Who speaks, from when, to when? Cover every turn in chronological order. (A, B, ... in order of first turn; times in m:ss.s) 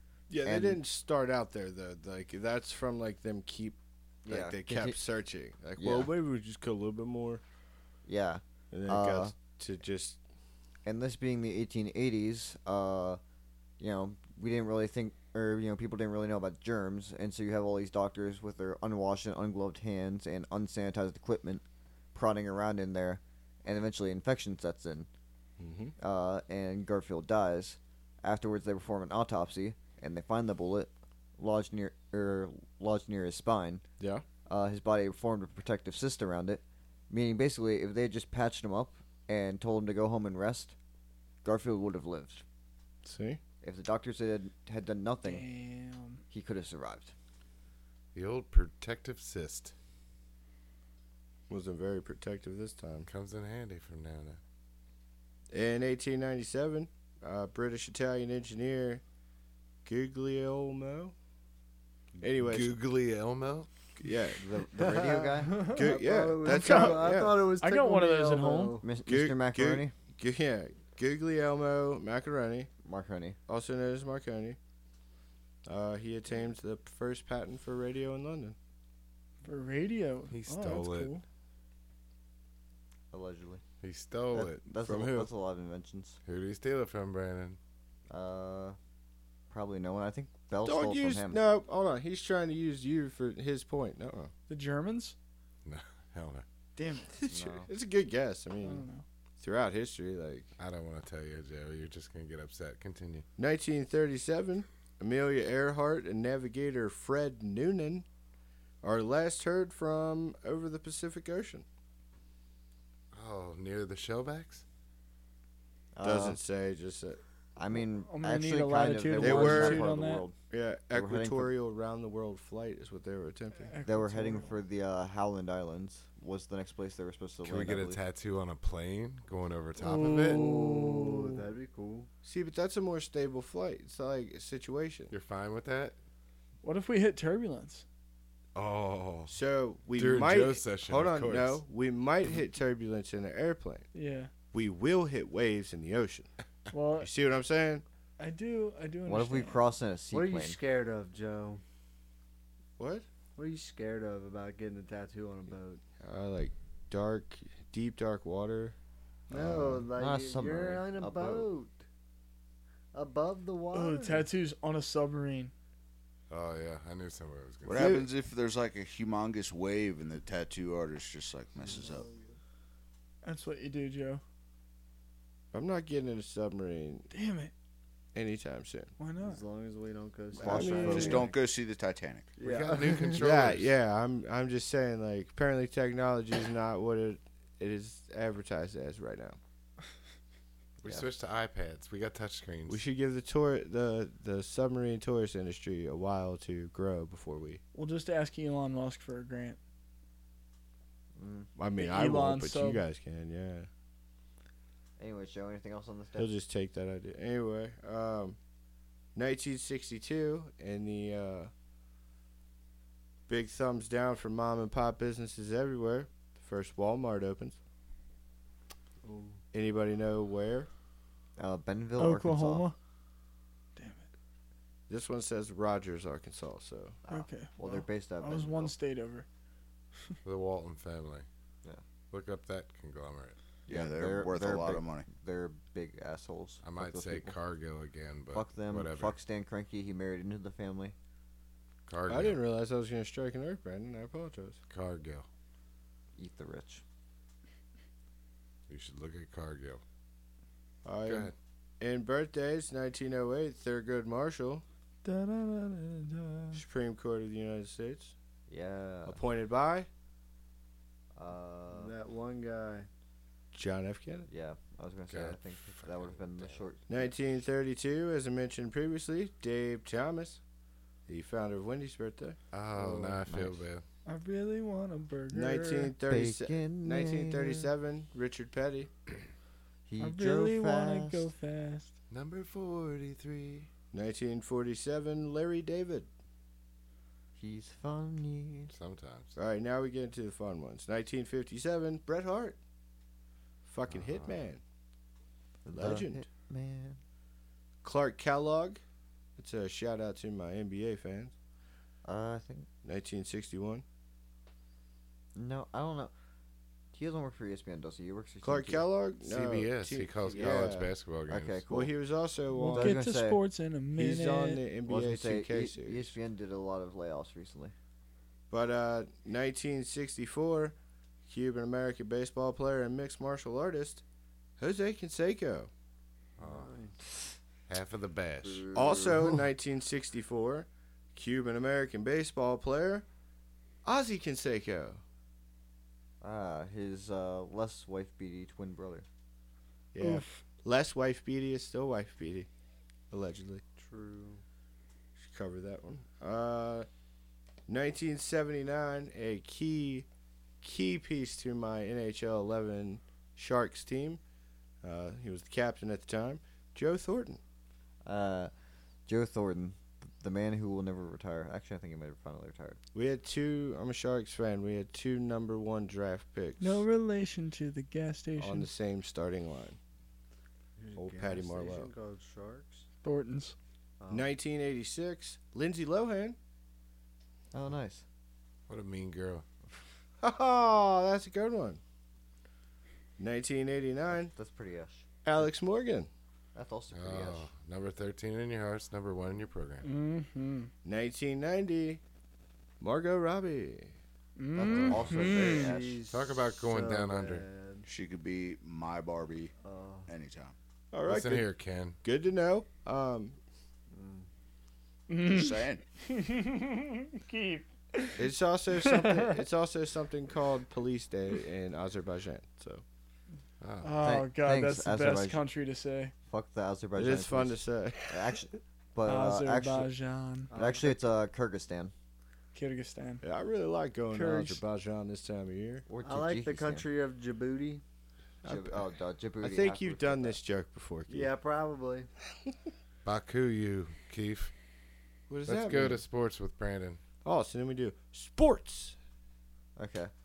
0:00.3-0:07.4 A
0:00.4-0:00.8 B
0:04.2-0:05.0 B
0:05.8-0:06.1 B
0:08.0-0:09.3 B
0:08.7-0:10.2 A
0:10.8-0:13.2 B
0:13.8-0:25.1 B
0:25.6-0:25.9 A
0:26.0-0:33.8 B
0:34.0-0:34.2 A
0:34.5-0:40.7 B
0:41.4-0:42.4 B
0:43.0-0:43.4 A
0:43.6-0:45.4 B
0:45.2-0:46.2 C
0:46.3-0:47.1 B
0:48.1-0:49.7 D
0:51.5-0:53.1 A
0:53.0-0:54.4 D
0:55.5-0:59.0 A
0:59.8-1:01.1 A
1:02.2-1:03.7 D
1:02.2-1:02.7 A
1:04.0-1:04.5 A
1:04.4-1:05.7 B
1:04.7-1:08.9 E
1:05.7-1:07.4 A
1:06.4-1:08.8 C
1:08.8-1:09.9 B
1:09.0-1:12.7 A
1:12.8-1:13.4 B
1:13.5-1:14.6 A
1:15.6-1:18.6 A
1:19.4-1:21.2 C
1:20.3-1:21.1 D
1:23.1-1:23.6 B
1:23.8-1:25.3 D
1:24.3-1:26.2 B
1:26.2-1:27.6 D
1:28.1-1:28.8 B
1:29.5-1:31.4 B
1:30.6-1:34.3 A
1:34.5-1:35.2 C
1:35.6-1:36.4 D
1:37.1-1:38.8 A
1:37.3-1:37.7 B
1:38.6-1:39.0 C
1:39.4-1:40.5 A
1:40.6-1:43.2 D
1:43.4-1:48.0 A
1:48.8-1:51.6 A
1:53.1-1:54.6 D
1:55.9-1:56.4 B
1:56.0-1:57.2 A
1:57.6-2:00.4 B
1:58.0-2:00.2 C
1:59.2-1:59.9 A
2:00.5-2:03.7 A
2:00.9-2:01.5 B
2:03.6-2:04.6 C
2:03.8-2:08.0 B
2:07.4-2:10.5 D
2:09.8-2:11.1 C
2:10.2-2:12.1 E
2:12.2-2:15.1 A
2:15.1-2:16.0 D
2:16.6-2:17.8 C
2:18.5-2:19.3 D
2:19.3-2:23.8 A
2:19.9-2:21.6 D
2:23.9-2:24.3 C
2:24.5-2:26.3 A
2:26.7-2:27.1 C
2:27.0-2:27.8 A
2:28.2-2:29.6 C
2:29.0-2:30.6 B
2:30.1-2:31.6 E
2:32.8-2:33.0 A
2:33.4-2:35.8 E
2:36.0-2:38.8 A
2:39.3-2:39.8 A
2:39.3-2:41.8 E
2:40.0-2:41.5 B
2:42.9-2:44.3 E
2:43.7-2:45.5 C
2:46.3-2:48.0 D
2:47.6-2:52.1 F
2:47.7-2:48.1 A
2:51.6-2:52.2 E
2:53.2-2:54.2 C
2:55.5-2:57.1 A
2:57.1-2:57.5 C
2:58.1-2:58.9 A
2:59.0-2:59.4 C
2:59.2-3:01.4 E
3:00.4-3:01.2 A
3:00.4-3:01.3 B
3:00.8-3:02.3 F
3:02.4-3:03.2 E
3:02.4-3:03.7 D
3:03.1-3:09.4 A
3:10.8-3:12.8 D
3:12.7-3:17.6 A
3:17.7-3:19.6 C
3:21.2-3:21.5 B
3:21.6-3:23.7 A
3:21.8-3:22.8 C
3:25.0-3:26.3 B
3:26.1-3:28.4 A
3:29.1-3:31.5 A
3:33.3-3:37.6 A
3:39.0-3:39.4 E
3:39.5-3:40.7 A
3:41.4-3:42.6 B
3:42.0-3:42.8 C
3:43.8-3:44.0 C
3:44.9-3:47.0 A
3:47.0-3:48.7 B
3:47.1-3:49.2 C
3:50.2-3:51.2 D
3:52.1-3:53.4 D
3:53.7-3:55.1 F
3:53.7-3:57.4 B
3:56.6-3:59.2 D
3:58.3-4:00.9 B
4:01.9-4:02.4 D
4:02.1-4:04.6 A
4:04.7-4:05.3 D
4:06.2-4:06.8 B
4:08.7-4:09.8 D
4:10.8-4:14.6 A
4:11.0-4:11.3 D
4:15.0-4:16.6 C
4:16.5-4:18.1 A
4:18.5-4:19.2 B
4:19.0-4:19.9 A
4:21.2-4:21.9 B
4:21.7-4:22.9 E
4:23.5-4:24.3 A
4:24.3-4:27.1 B
4:25.1-4:26.6 D
4:26.9-4:30.4 A
4:31.1-4:33.2 A
4:32.5-4:33.8 D
4:33.2-4:33.6 B
4:34.0-4:35.9 C
4:35.3-4:38.9 A
4:36.0-4:37.7 B
4:39.9-4:41.3 B
4:40.0-4:42.0 C
4:42.1-4:43.7 D
4:43.9-4:46.1 A
4:47.4-4:48.7 B
4:48.7-4:49.3 D
4:49.4-4:52.6 A
4:53.6-4:54.6 A
4:53.9-4:54.4 D
4:55.6-4:57.0 B
4:55.7-4:56.2 A
4:57.8-4:58.8 A
4:59.4-5:01.3 A
5:02.0-5:02.7 B
5:02.8-5:03.8 A
5:05.3-5:06.1 B
5:06.9-5:08.8 B
5:08.4-5:10.9 A
5:09.2-5:11.6 D
5:10.3-5:10.6 E
5:11.3-5:11.9 B
5:11.7-5:13.0 A
5:12.5-5:14.6 C
5:12.6-5:13.4 B
5:13.9-5:16.2 A
5:14.9-5:17.7 B
5:18.5-5:24.0 A
5:24.6-5:25.7 A
5:26.4-5:26.7 D
5:26.4-5:27.0 E
5:27.7-5:28.6 D
5:28.4-5:29.2 B
5:28.7-5:33.0 A
5:33.8-5:35.0 A
5:36.2-5:39.0 B
5:39.9-5:42.5 A
5:40.0-5:40.4 C
5:43.1-5:43.6 A
5:43.8-5:44.4 E
5:45.2-5:46.9 A
5:47.7-5:50.1 A
5:50.6-5:54.2 A
5:54.8-5:57.4 A
5:58.0-5:58.5 B
5:59.1-6:02.8 B
6:02.9-6:06.8 A
6:06.6-6:08.7 C
6:08.4-6:09.8 A
6:10.8-6:12.8 E
6:11.0-6:11.9 A
6:13.0-6:13.6 C
6:14.0-6:14.3 E
6:14.1-6:16.4 A
6:17.5-6:18.0 B
6:18.7-6:19.4 D
6:20.2-6:21.8 A
6:23.2-6:24.3 A
6:24.2-6:25.4 B
6:25.2-6:26.1 A
6:26.5-6:27.5 B
6:26.9-6:29.8 D
6:29.8-6:30.7 C
6:30.8-6:32.0 A
6:32.8-6:34.0 A
6:34.4-6:35.7 C
6:34.5-6:36.0 B
6:34.6-6:35.0 D
6:34.9-6:37.9 E
6:36.1-6:37.4 D
6:37.8-6:39.5 F
6:39.6-6:40.1 E
6:40.1-6:40.5 F
6:40.9-6:41.5 A
6:41.0-6:42.0 D
6:42.0-6:43.4 A
6:43.9-6:44.3 E
6:45.1-6:48.2 C
6:45.2-6:45.8 F
6:48.2-6:52.8 A
6:48.8-6:49.3 C
6:53.6-6:53.9 D
6:53.8-6:56.1 C
6:54.0-6:55.4 B
6:56.3-6:59.9 B
6:56.9-6:58.4 A
6:59.0-7:00.5 C
7:00.5-7:01.0 E
7:00.5-7:01.9 B
7:02.5-7:03.2 C
7:03.2-7:05.9 A
7:04.1-7:04.5 C
7:05.9-7:06.9 B
7:06.0-7:07.8 E
7:08.4-7:08.9 A
7:08.4-7:10.4 B
7:09.4-7:11.3 A
7:11.1-7:12.1 E
7:13.0-7:14.5 D
7:15.3-7:16.0 A
7:15.5-7:17.0 D
7:17.2-7:19.0 A
7:19.8-7:20.1 B